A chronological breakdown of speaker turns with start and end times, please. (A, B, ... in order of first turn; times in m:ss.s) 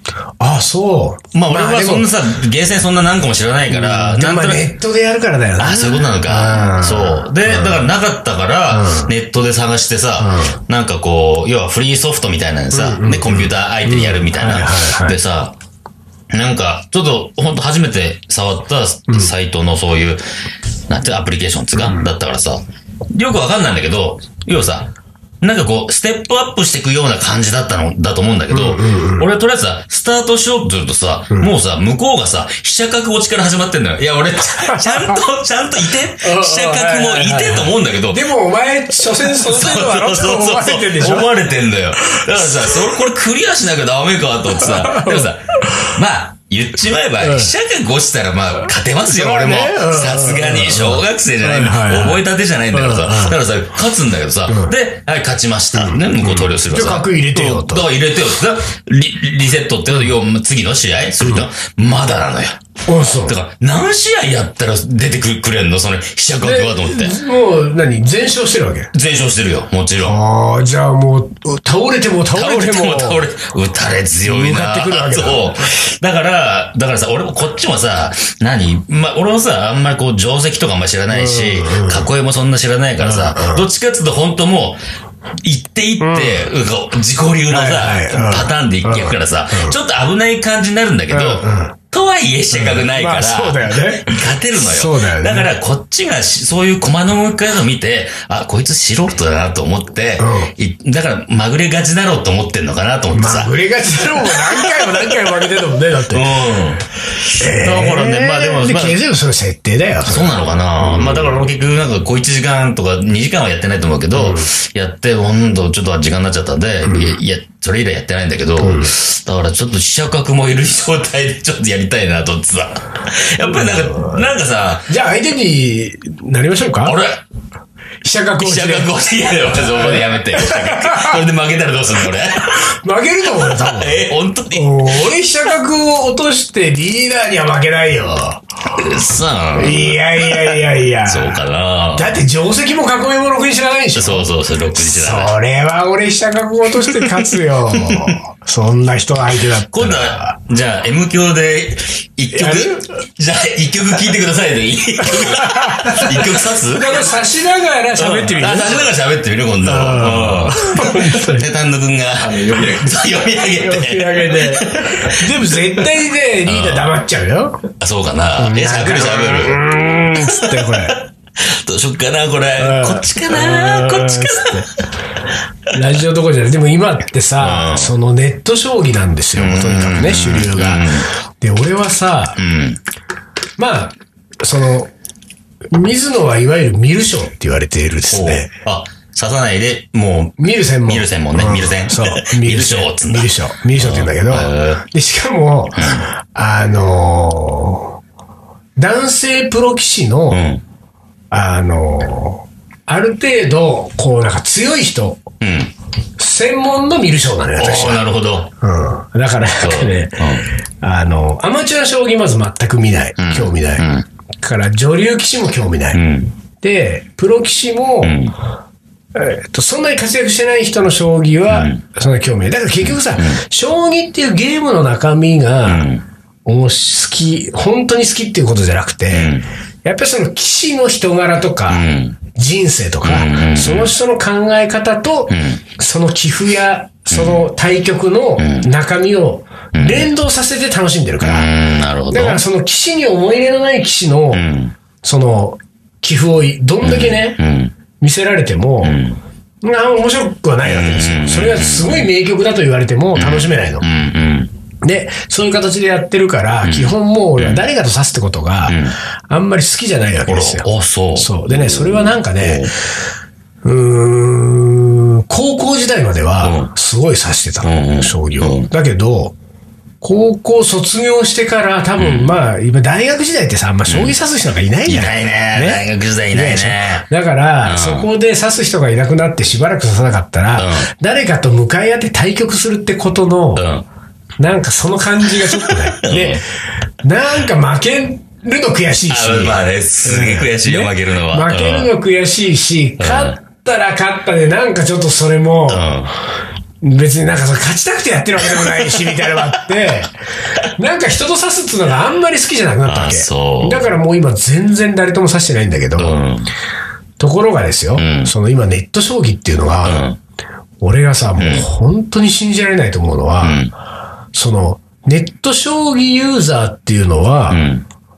0:00.4-0:02.1 A
0:01.3-0:04.7 B
0:03.7-0:07.8 A
0:05.6-0:15.6 B
0:08.7-0:09.1 A
0:10.2-0:10.6 A
0:12.7-0:15.2 A
0:16.3-0:20.2 B
0:20.9-0:22.6 B
0:21.8-0:22.1 A
0:23.1-0:38.2 B
0:28.5-0:29.3 A
0:34.6-0:35.2 A
0:36.2-0:41.3 A
0:39.1-1:02.6 B
0:42.1-0:42.9 A
0:44.5-0:45.9 A
0:47.2-0:47.5 A
0:49.0-0:53.4 A
0:54.5-0:54.7 A
0:55.7-0:57.9 A
1:02.8-1:03.4 A
1:03.2-1:07.2 B
1:06.4-1:08.9 A
1:08.9-1:10.2 B
1:10.0-1:13.2 A
1:12.3-1:24.8 B
1:14.2-1:15.6 A
1:21.1-1:22.1 A
1:23.0-1:23.7 A
1:25.4-1:43.5 B
1:26.0-1:26.5 A
1:27.5-1:29.7 A
1:31.1-1:31.8 A
1:32.5-1:35.5 A
1:40.2-1:40.5 A
1:43.1-1:46.3 A
1:44.2-1:45.4 B
1:46.1-1:49.0 B
1:47.4-1:51.5 A
1:50.0-2:04.9 B
1:54.1-1:54.5 A
1:56.8-1:57.2 A
1:58.6-1:58.9 A
2:03.4-2:04.3 A
2:04.9-2:07.0 A
2:06.8-2:07.2 B
2:08.0-2:08.9 A
2:08.4-2:12.6 B
2:09.8-2:11.2 A
2:12.5-2:18.4 A
2:13.3-2:15.1 B
2:18.7-2:22.2 B
2:19.5-2:30.4 A
2:23.9-2:25.3 B
2:26.8-2:28.2 B
2:29.5-2:37.2 B
2:32.3-2:32.9 A
2:35.0-2:38.9 A
2:38.0-2:45.9 B
2:39.6-2:41.5 A
2:43.5-2:47.6 A
2:46.4-2:46.9 B
2:47.8-2:54.7 B
2:48.4-2:51.0 A
2:52.6-2:54.7 A
2:55.7-3:02.4 A
2:57.4-2:57.9 B
2:59.4-3:01.1 B
3:02.4-3:02.8 B
3:03.6-3:04.9 A
3:05.7-3:08.5 A
3:08.1-3:14.8 B
3:10.4-3:18.0 A
3:15.8-3:16.0 B
3:18.8-3:20.4 A
3:20.3-3:20.6 B
3:21.3-3:25.2 A
3:25.4-3:25.7 B
3:26.2-3:28.0 A
3:27.6-3:28.5 B
3:28.6-3:33.9 A
3:29.6-3:30.5 B
3:33.2-3:34.0 B
3:34.4-3:36.0 A
3:35.9-3:36.3 B
3:36.6-3:38.2 A
3:38.0-3:38.3 B
3:39.2-3:45.9 A
3:41.5-3:41.8 B
3:42.8-3:43.4 B
3:45.7-3:46.0 B
3:46.5-4:01.5 A
3:49.1-3:49.4 B
3:51.7-3:52.2 B
3:53.0-3:53.9 B
3:55.3-3:55.6 B
3:57.1-3:57.5 B
3:58.4-3:58.7 B
3:59.7-4:00.1 B
4:01.2-4:02.4 B
4:02.1-4:04.4 A
4:04.3-4:04.7 B
4:05.0-4:07.4 A
4:06.8-4:07.7 B
4:08.0-4:09.0 A
4:08.8-4:09.2 B
4:09.6-4:13.8 A
4:10.6-4:12.1 B
4:13.1-4:14.5 B
4:14.8-4:22.7 A
4:16.6-4:17.7 B
4:18.6-4:19.0 B
4:20.2-4:22.7 B
4:23.6-4:29.3 A
4:26.4-4:26.7 B
4:27.6-4:28.7 B
4:30.0-4:43.6 A
4:32.0-4:32.4 B
4:33.9-4:34.2 B
4:34.8-4:37.0 B
4:37.6-4:38.1 B
4:40.6-4:40.9 B
4:43.6-4:43.9 B
4:44.4-4:46.4 A
4:45.4-4:46.4 B
4:47.0-4:55.9 A
4:49.1-4:51.9 B
4:53.0-4:53.4 B
4:55.7-4:56.1 B
4:56.8-5:06.2 A
4:58.5-4:59.4 B
5:02.8-5:03.9 B
5:06.0-5:06.5 B
5:07.2-5:10.1 A
5:08.0-5:08.3 B
5:09.8-5:10.2 B
5:10.8-5:13.7 A
5:11.4-5:11.7 B
5:13.4-5:13.7 B
5:14.3-5:17.6 A
5:17.5-5:17.8 B